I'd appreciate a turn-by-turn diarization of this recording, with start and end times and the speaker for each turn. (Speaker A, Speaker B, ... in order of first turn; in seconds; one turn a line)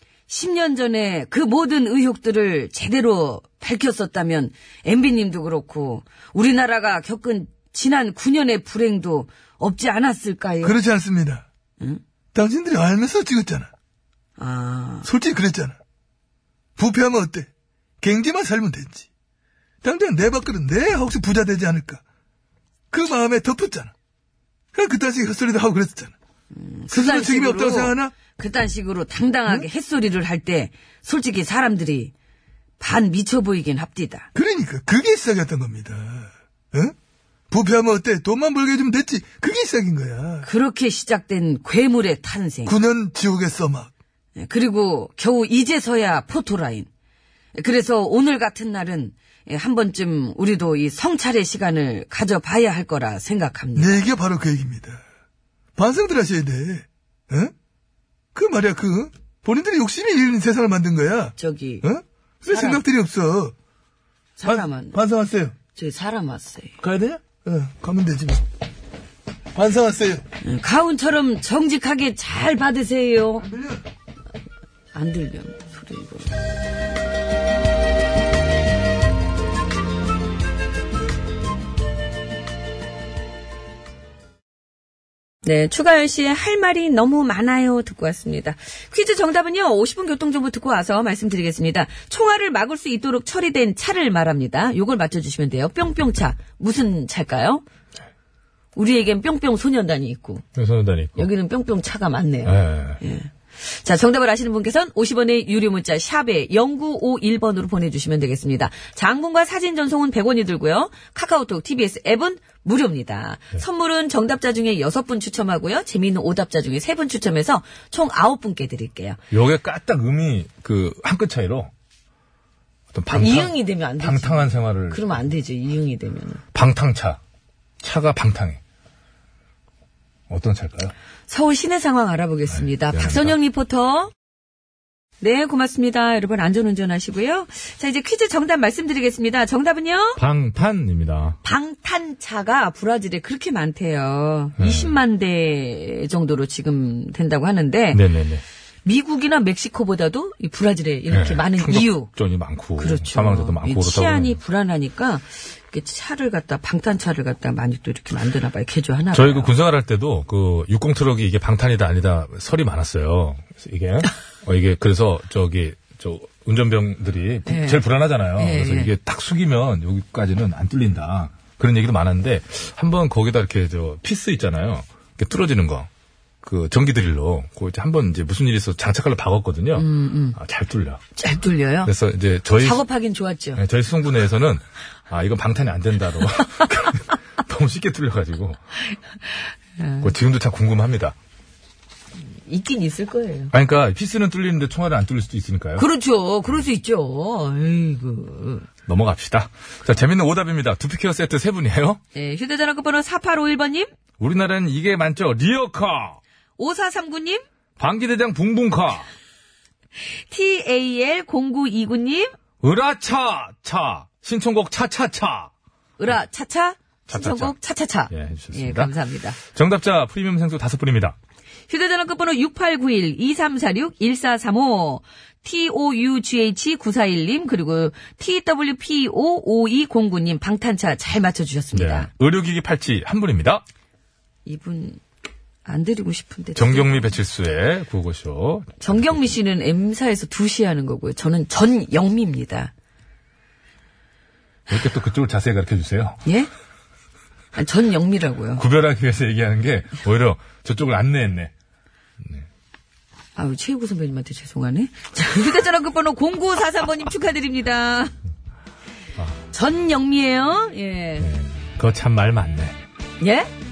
Speaker A: 0.3-10.8
Speaker B: 10.6-11.5
Speaker B: 12.3-13.7
Speaker A: 14.4-15.1
Speaker B: 15.0-15.8
Speaker B: 16.8-17.5
Speaker B: 18.0-19.1
Speaker B: 19.8-22.0
Speaker B: 22.9-23.9
Speaker B: 24.7-26.1
Speaker A: 26.5-32.1
Speaker B: 26.9-28.1
Speaker A: 32.8-34.3
Speaker B: 34.4-37.0
Speaker B: 37.5-40.5
Speaker A: 40.4-42.8
Speaker B: 42.7-43.9
Speaker A: 44.4-46.9
Speaker A: 47.5-54.0
Speaker B: 53.8-55.0
Speaker B: 55.8-57.5
Speaker B: 58.4-63.5
Speaker A: 61.4-61.9
Speaker A: 62.5-62.8
Speaker A: 64.4-65.0
Speaker B: 64.5-65.5
Speaker A: 65.8-66.8
Speaker B: 66.8-68.4
Speaker B: 69.5-70.2
Speaker A: 70.4-73.5
Speaker B: 73.4-73.8
Speaker A: 74.9-76.3
Speaker A: 85.4-97.6
Speaker A: 98.8-100.4
Speaker C: 100.6-101.3
Speaker A: 101.2-119.2
Speaker C: 102.5-103.0
Speaker C: 119.3-121.7
Speaker C: 122.9-125.2
Speaker A: 123.1-126.4
Speaker C: 126.5-127.2
Speaker C: 127.8-128.6
Speaker C: 130.3-130.9
Speaker A: 131.3-134.1
Speaker C: 132.6-133.3
Speaker A: 135.2-140.2
Speaker C: 140.2-141.4
Speaker A: 141.4-148.0
Speaker C: 144.6-145.0
Speaker C: 147.9-148.4
Speaker A: 148.8-152.1
Speaker C: 151.1-154.4
Speaker A: 152.8-159.5
Speaker C: 159.1-175.9
Speaker A: 167.5-167.8
Speaker A: 168.4-168.9
Speaker C: 176.4-181.0
Speaker A: 179.8-180.4
Speaker A: 181.2-181.9
Speaker C: 181.8-182.8
Speaker A: 182.6-183.6
Speaker C: 183.6-188.6
Speaker A: 189.8-190.1
Speaker C: 190.0-191.2
Speaker A: 192.3-193.5
Speaker C: 193.5-195.8
Speaker A: 195.8-198.7
Speaker C: 198.9-202.0
Speaker A: 202.2-203.9
Speaker C: 204.2-206.2
Speaker A: 206.6-207.4
Speaker C: 207.8-209.1
Speaker A: 210.0-212.3
Speaker C: 212.6-215.5
Speaker A: 216.0-219.4
Speaker C: 217.1-217.5
Speaker C: 218.1-221.2
Speaker A: 221.7-232.1
Speaker C: 231.7-233.6
Speaker A: 234.5-235.0
Speaker A: 235.7-237.1
Speaker C: 236.6-239.3
Speaker A: 238.8-242.7
Speaker C: 244.7-246.2
Speaker A: 247.6-248.6
Speaker C: 248.6-251.5
Speaker A: 253.4-258.1
Speaker A: 259.5-261.3
Speaker C: 261.2-262.8
Speaker A: 263.2-263.5